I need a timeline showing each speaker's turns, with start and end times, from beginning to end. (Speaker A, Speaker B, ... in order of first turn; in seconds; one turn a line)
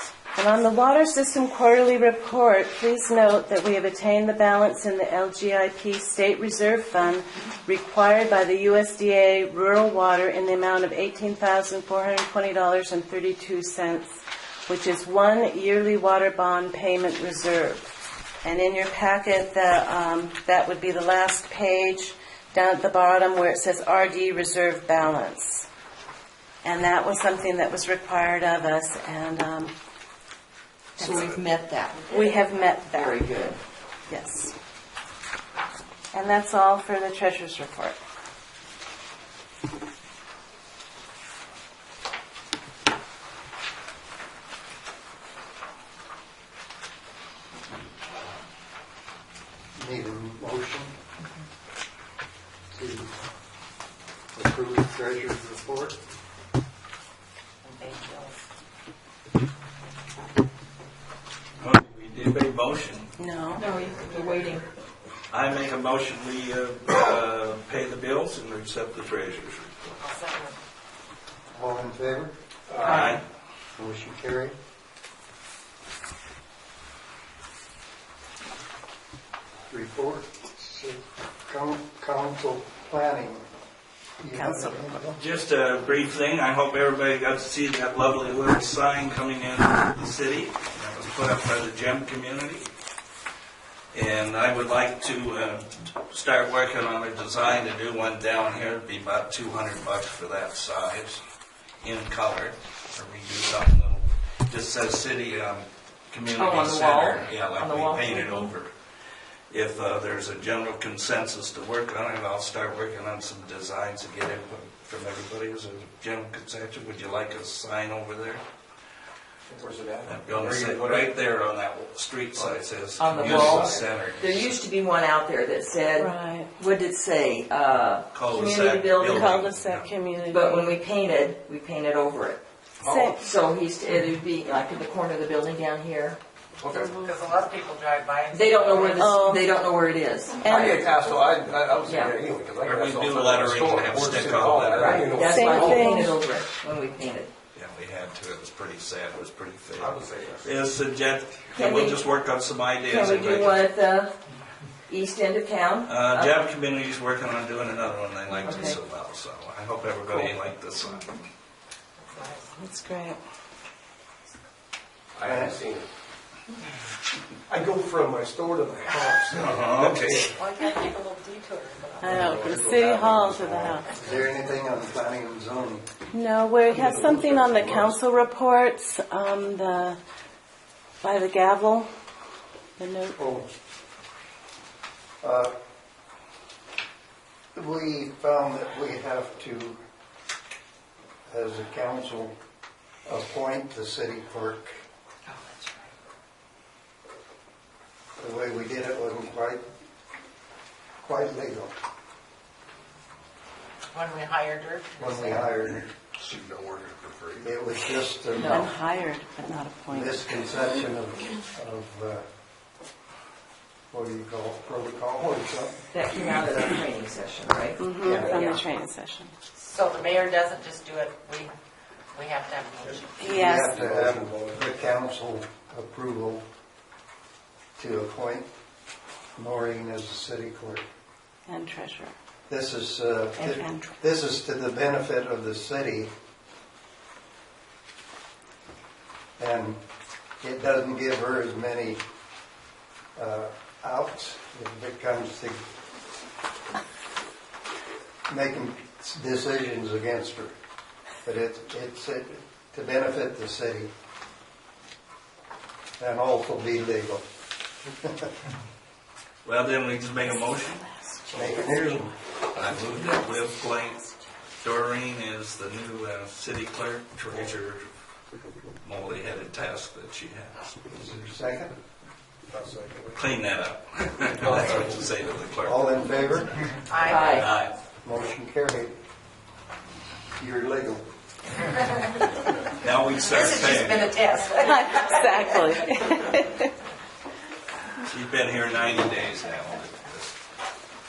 Speaker A: 0.3-17.9
Speaker A: 18.4-25.7
Speaker A: 26.6-29.7
Speaker A: 31.0-31.4
Speaker B: 31.0-32.3
Speaker A: 32.1-33.2
Speaker B: 32.9-33.6
Speaker A: 34.1-34.5
Speaker A: 36.1-38.0
Speaker C: 49.8-50.9
Speaker C: 52.7-53.1
Speaker C: 54.3-56.0
Speaker D: 57.6-58.4
Speaker E: 61.6-63.1
Speaker A: 63.2-63.7
Speaker B: 63.6-64.7
Speaker E: 65.3-69.9
Speaker D: 70.0-70.6
Speaker C: 71.5-72.3
Speaker F: 72.7-73.1
Speaker B: 72.8-73.2
Speaker E: 72.9-73.2
Speaker C: 73.8-74.6
Speaker C: 79.7-83.5
Speaker C: 84.2-85.2
Speaker A: 84.3-85.0
Speaker E: 85.2-92.7
Speaker E: 93.9-101.2
Speaker E: 101.8-108.7
Speaker B: 106.3-108.5
Speaker E: 109.5-118.4
Speaker F: 119.5-121.2
Speaker E: 120.1-124.6
Speaker F: 122.3-123.9
Speaker B: 123.0-129.4
Speaker A: 126.0-126.5
Speaker E: 128.1-129.9
Speaker A: 129.0-130.7
Speaker B: 130.3-132.4
Speaker F: 132.8-133.2
Speaker A: 132.8-133.2
Speaker B: 133.2-136.2
Speaker F: 136.6-136.9
Speaker A: 136.8-137.1
Speaker D: 136.9-139.1
Speaker B: 138.3-140.8
Speaker A: 139.0-139.5
Speaker A: 140.4-140.8
Speaker F: 140.4-146.1
Speaker B: 141.9-142.2
Speaker E: 142.6-145.0
Speaker B: 144.8-147.3
Speaker A: 145.2-146.2
Speaker E: 147.5-153.7
Speaker F: 149.8-150.6
Speaker B: 151.5-152.1
Speaker B: 152.8-154.2
Speaker B: 154.9-156.5
Speaker E: 155.9-161.2
Speaker B: 158.4-158.8
Speaker D: 162.0-162.5
Speaker A: 162.6-163.2
Speaker F: 165.1-165.9
Speaker C: 165.2-165.6
Speaker F: 167.5-170.3
Speaker E: 169.3-170.3
Speaker D: 170.2-172.6
Speaker A: 172.0-173.9
Speaker F: 172.0-173.8
Speaker C: 173.9-175.8
Speaker A: 176.1-180.0
Speaker F: 176.7-178.0
Speaker A: 181.0-181.9
Speaker A: 182.8-183.2
Speaker C: 183.2-183.5
Speaker C: 185.2-185.5
Speaker C: 187.6-189.8
Speaker C: 191.3-192.3
Speaker C: 193.1-194.8
Speaker D: 195.3-195.9
Speaker C: 198.2-199.6
Speaker C: 201.0-201.7
Speaker D: 203.9-205.6
Speaker C: 205.0-205.9
Speaker F: 206.2-207.5
Speaker C: 207.4-208.7
Speaker B: 208.3-208.7
Speaker A: 208.5-210.5
Speaker C: 209.9-212.2
Speaker C: 213.9-215.8
Speaker B: 215.9-218.6
Speaker A: 217.8-219.3
Speaker C: 218.0-218.4
Speaker D: 219.6-221.5
Speaker D: 222.1-223.2
Speaker F: 222.9-224.8
Speaker A: 223.2-223.8
Speaker C: 223.2-226.5
Speaker C: 227.8-228.5
Speaker C: 229.4-230.8
Speaker A: 231.5-232.1
Speaker C: 232.5-236.1
Speaker A: 233.4-234.0
Speaker C: 239.4-239.8
Speaker C: 240.4-242.0
Speaker C: 243.2-245.6
Speaker C: 248.3-250.5
Speaker C: 251.2-253.9
Speaker C: 256.0-257.2
Speaker C: 258.0-258.3
Speaker E: 259.4-260.9
Speaker C: 261.3-262.1
Speaker E: 262.5-264.1
Speaker E: 264.6-267.9
Speaker E: 268.8-270.7
Speaker C: 270.9-271.7
Speaker F: 272.5-273.3
Speaker E: 273.2-275.9
Speaker F: 274.4-275.0
Speaker C: 275.6-276.7
Speaker D: 276.9-277.6
Speaker B: 277.0-277.5
Speaker E: 277.4-277.8
Speaker C: 278.0-279.0
Speaker C: 280.4-281.1
Speaker E: 282.8-284.1
Speaker D: 283.1-285.4
Speaker A: 284.6-286.7
Speaker E: 288.0-290.4